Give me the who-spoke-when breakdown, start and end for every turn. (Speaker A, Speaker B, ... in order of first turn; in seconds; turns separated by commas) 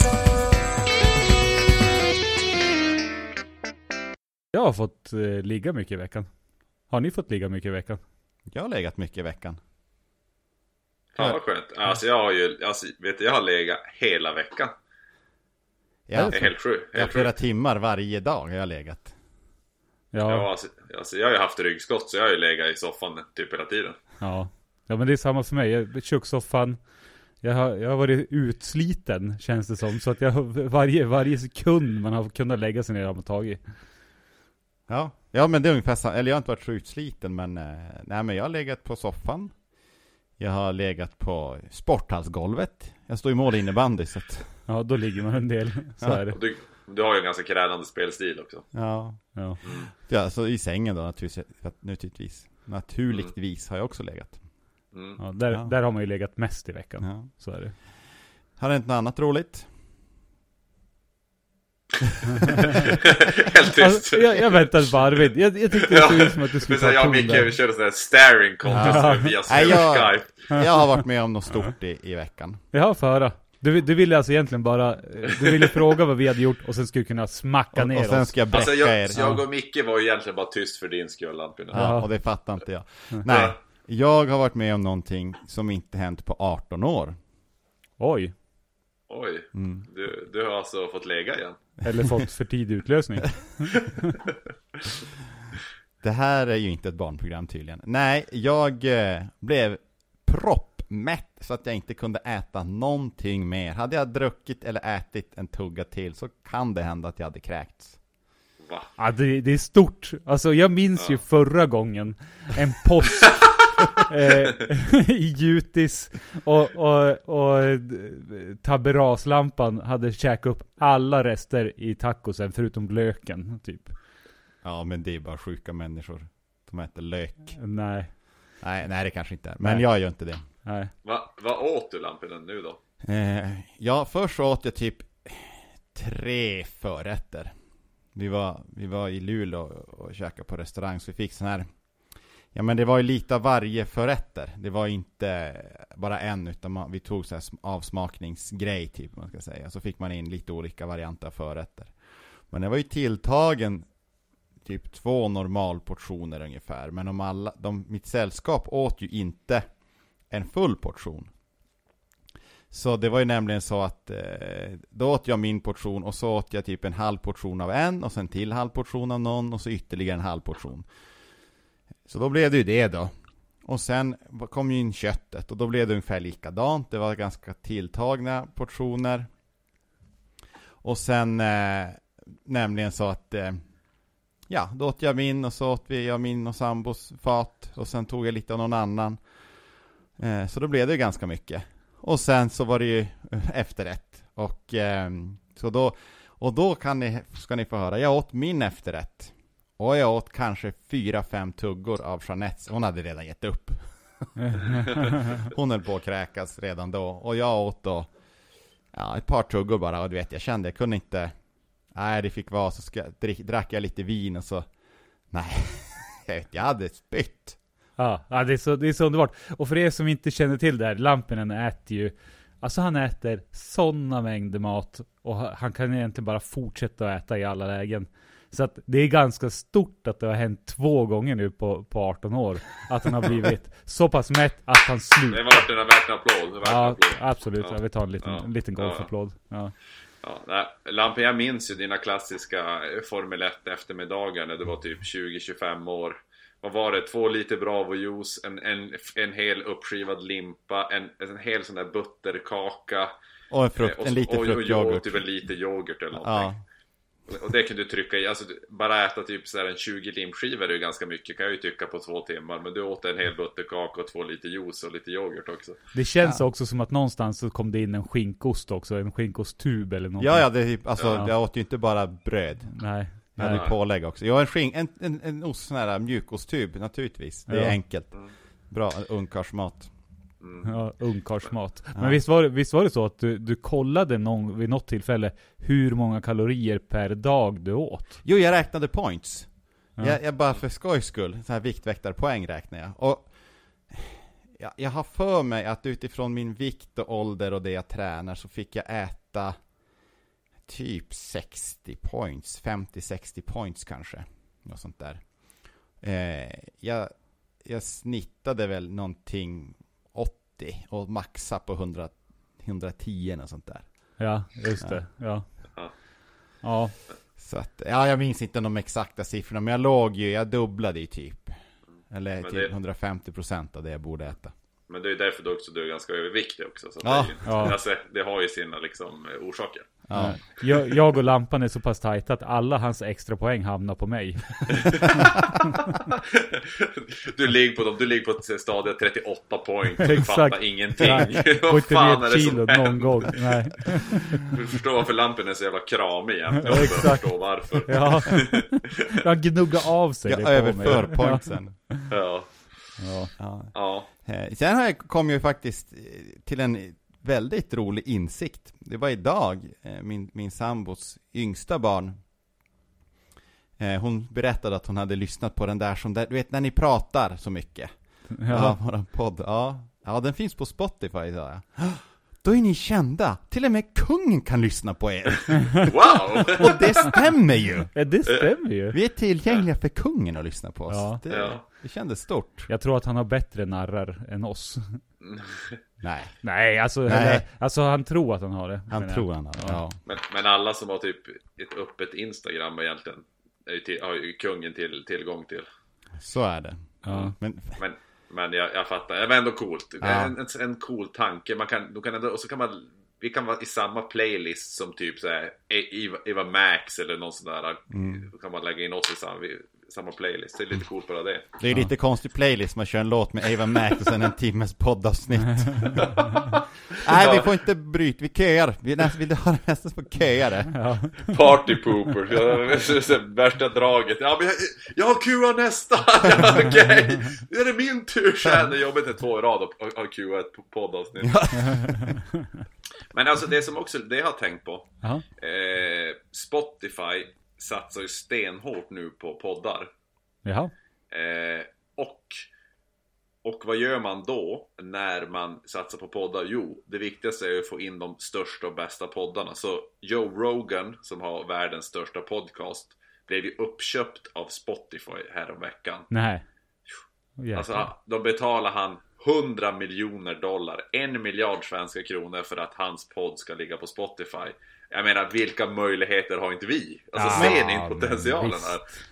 Speaker A: 4.5-6.3, Speaker A: 6.9-8.0, Speaker B: 8.5-9.6, Speaker C: 11.1-14.8, Speaker B: 16.1-19.1, Speaker A: 16.1-16.5, Speaker C: 16.3-17.3, Speaker A: 20.1-20.5, Speaker C: 20.3-24.0, Speaker A: 24.2-26.8, Speaker A: 27.4-33.6, Speaker B: 34.9-39.5, Speaker B: 40.4-44.5, Speaker A: 44.7-46.4, Speaker C: 46.3-48.7, Speaker B: 48.7-49.2, Speaker C: 49.6-49.9, Speaker B: 50.1-54.4, Speaker C: 54.9-55.2, Speaker A: 55.2-57.7, Speaker B: 57.0-57.3, Speaker B: 58.6-59.7, Speaker C: 62.7-64.8, Speaker A: 63.7-67.5, Speaker C: 65.7-70.5, Speaker A: 68.7-69.7, Speaker B: 68.7-72.6, Speaker A: 72.7-78.4, Speaker C: 75.3-75.8, Speaker B: 77.7-79.4, Speaker C: 78.5-81.9, Speaker A: 79.2-79.4, Speaker B: 81.7-87.2, Speaker A: 81.7-82.1, Speaker C: 83.3-83.5, Speaker A: 88.0-88.3, Speaker C: 89.1-91.6, Speaker B: 89.5-89.9, Speaker A: 91.8-94.2, Speaker B: 96.0-108.0, Speaker C: 108.6-108.9, Speaker A: 109.0-123.9, Speaker C: 113.3-113.8, Speaker B: 124.6-127.6, Speaker A: 127.6-128.1, Speaker B: 128.6-130.4, Speaker A: 130.7-130.9, Speaker C: 131.0-132.8, Speaker B: 133.0-137.5, Speaker B: 138.2-141.7, Speaker B: 142.5-151.9, Speaker B: 152.5-153.9, Speaker B: 154.7-159.7, Speaker B: 160.3-161.3, Speaker B: 162.7-170.9, Speaker B: 172.1-173.1, Speaker B: 173.7-179.3, Speaker B: 180.8-183.6, Speaker B: 184.5-189.2, Speaker B: 190.2-203.8, Speaker A: 204.4-205.2, Speaker B: 204.5-208.1, Speaker B: 208.9-211.3, Speaker B: 211.9-214.7, Speaker B: 215.3-217.6, Speaker A: 218.0-235.7, Speaker C: 235.3-239.1, Speaker A: 236.6-239.7, Speaker C: 240.2-253.2, Speaker B: 253.5-255.2, Speaker C: 253.8-256.5, Speaker B: 256.2-256.6, Speaker C: 257.3-265.8, Speaker A: 265.9-270.5, Speaker B: 270.2-272.7, Speaker A: 272.7-273.7, Speaker B: 273.4-278.1, Speaker C: 273.5-273.7, Speaker A: 277.5-277.8, Speaker B: 278.7-279.9, Speaker C: 280.4-280.7, Speaker A: 280.6-288.2, Speaker B: 288.2-289.5, Speaker B: 290.0-293.3, Speaker B: 293.9-299.6, Speaker B: 300.7-305.2, Speaker B: 306.0-313.9, Speaker A: 314.2-315.5, Speaker A: 316.6-316.9, Speaker B: 317.4-321.6, Speaker B: 322.1-324.5, Speaker C: 322.4-322.7, Speaker C: 324.9-329.9, Speaker B: 327.0-327.6, Speaker A: 327.5-327.8, Speaker B: 330.1-330.4, Speaker A: 330.1-335.7, Speaker C: 334.7-335.2, Speaker B: 334.8-335.6, Speaker C: 336.1-343.4, Speaker A: 340.0-344.5, Speaker C: 344.5-349.3, Speaker A: 346.6-352.1, Speaker B: 350.3-351.8, Speaker C: 352.1-352.5, Speaker A: 353.0-353.3, Speaker B: 353.4-353.7, Speaker C: 353.7-354.1, Speaker B: 354.2-362.2, Speaker B: 363.8-367.9, Speaker A: 368.4-368.8, Speaker B: 368.5-377.9, Speaker C: 375.8-377.1, Speaker A: 377.9-379.0, Speaker C: 378.2-378.5, Speaker B: 378.9-382.7, Speaker A: 380.9-381.2, Speaker C: 381.3-381.6, Speaker A: 382.7-385.0, Speaker C: 385.2-385.8, Speaker B: 386.0-386.4, Speaker A: 386.4-389.8, Speaker B: 387.1-387.4, Speaker B: 388.9-390.0, Speaker C: 390.1-395.7, Speaker B: 396.2-397.8, Speaker A: 397.1-397.4, Speaker C: 397.1-411.5, Speaker B: 400.0-400.3, Speaker B: 407.9-408.3, Speaker B: 411.6-416.3, Speaker C: 416.0-416.2, Speaker B: 416.9-420.8, Speaker C: 417.1-417.5, Speaker A: 420.7-421.5, Speaker C: 421.3-431.4, Speaker B: 431.2-432.2, Speaker A: 431.7-432.1, Speaker C: 433.1-439.9, Speaker A: 440.4-440.7, Speaker C: 441.1-442.4, Speaker C: 443.4-456.1, Speaker A: 456.1-456.4, Speaker A: 457.4-457.9, Speaker C: 457.5-468.9, Speaker A: 467.1-468.9, Speaker B: 467.3-467.6